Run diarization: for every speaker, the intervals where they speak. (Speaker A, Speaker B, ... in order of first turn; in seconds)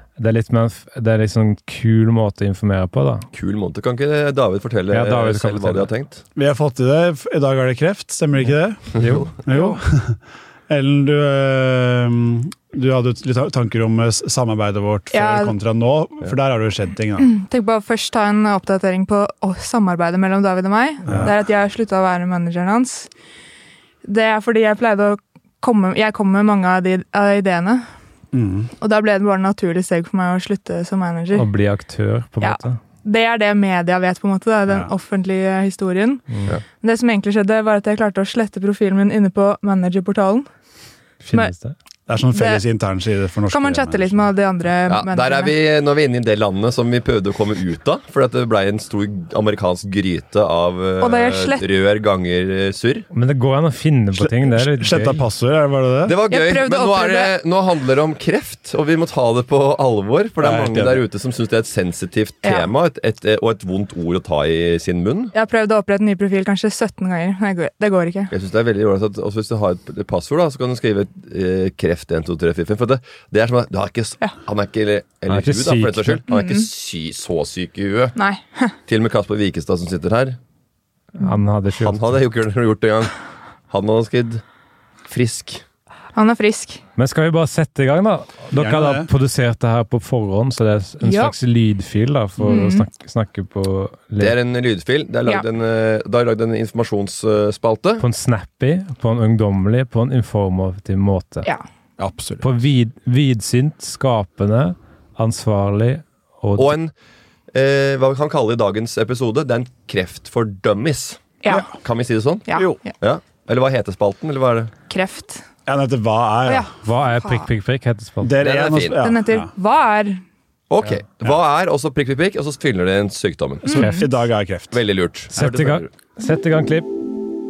Speaker A: 0.2-3.3, 4.9-5.9, 9.0-9.3, 31.3-32.8, 41.2-41.8, 53.1-55.2, 75.3-76.2, 81.2-82.1, 87.0-94.4, 98.0-101.5, 102.4-106.8, 116.8-118.4, 123.8-124.1, 125.3-126.9
Speaker B: 3.3-6.2, 9.0-9.3, 44.9-53.1, 56.0-65.3, 68.3-78.2, 78.9-80.4, 81.8-83.1, 83.7-84.4, 85.1-85.6, 94.2-98.0, 106.6-106.9, 107.5-114.7, 118.4-119.0, 120.7-123.8, 124.7-125.9
Speaker C: 6.3-17.3, 21.1-21.4, 28.3-28.7, 42.1-44.3, 54.2-56.2, 60.4-61.0, 88.5-89.1, 102.0-102.5, 115.7-116.7, 118.2-119.5, 123.7-124.8
Speaker D: 9.5-9.8, 15.1-15.6, 17.2-23.1, 24.0-27.9, 28.8-31.5, 32.4-36.3, 36.8-40.5, 42.3-42.6, 43.5-45.5, 51.0-51.7, 56.3-57.3, 62.4-62.7, 65.3-68.3, 76.3-76.7, 78.2-78.8, 86.1-86.8, 91.0-91.3, 92.4-92.9, 111.4-111.7, 112.5-112.9, 114.9-115.4, 116.5-117.5, 119.0-120.2, 123.7-124.1